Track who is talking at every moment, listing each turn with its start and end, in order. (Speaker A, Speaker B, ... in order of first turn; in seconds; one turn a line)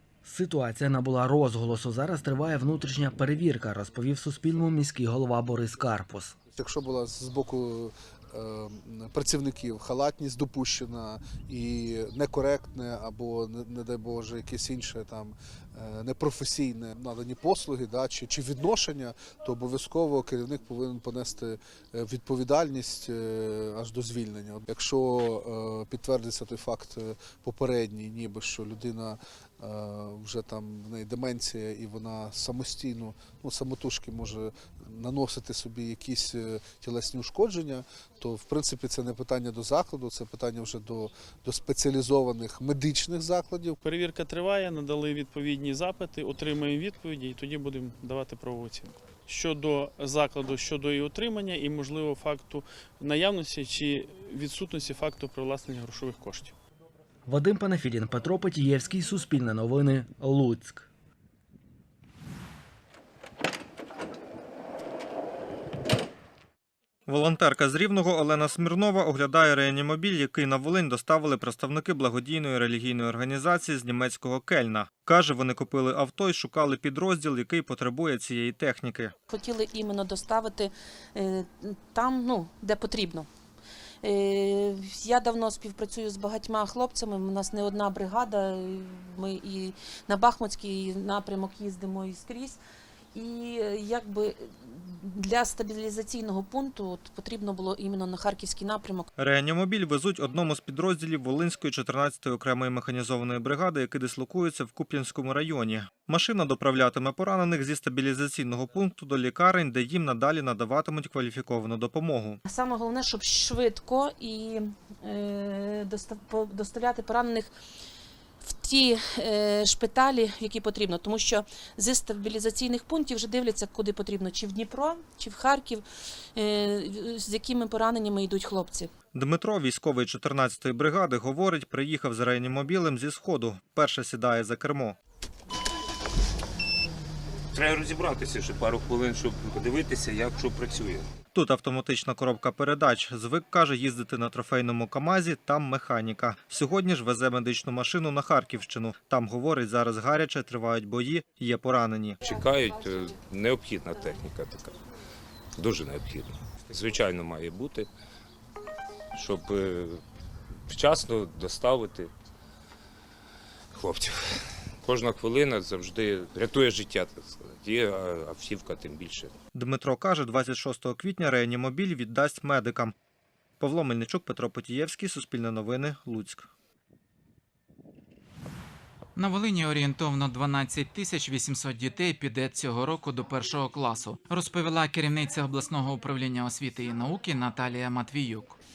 Speaker A: 0.2-6.4
Speaker B: 6.5-43.8
Speaker C: 43.8-56.5
Speaker A: 57.3-60.9
Speaker D: 67.1-79.1
Speaker E: 79.3-83.3
Speaker E: 84.0-92.6
Speaker E: 93.1-99.1
Speaker D: 99.2-112.4
Speaker E: 112.5-117.5
Speaker E: 118.4-128.9
Speaker D: 129.1-135.0
Speaker F: 137.6-141.0
Speaker D: 141.3-152.2
Speaker F: 152.3-154.7
Speaker F: 155.6-157.9
Speaker F: 159.2-160.0
Speaker F: 160.7-162.1
Speaker F: 163.8-164.1
Speaker F: 164.8-169.3
Speaker D: 169.6-172.9
Speaker D: 173.6-176.5
Speaker G: 179.2-188.6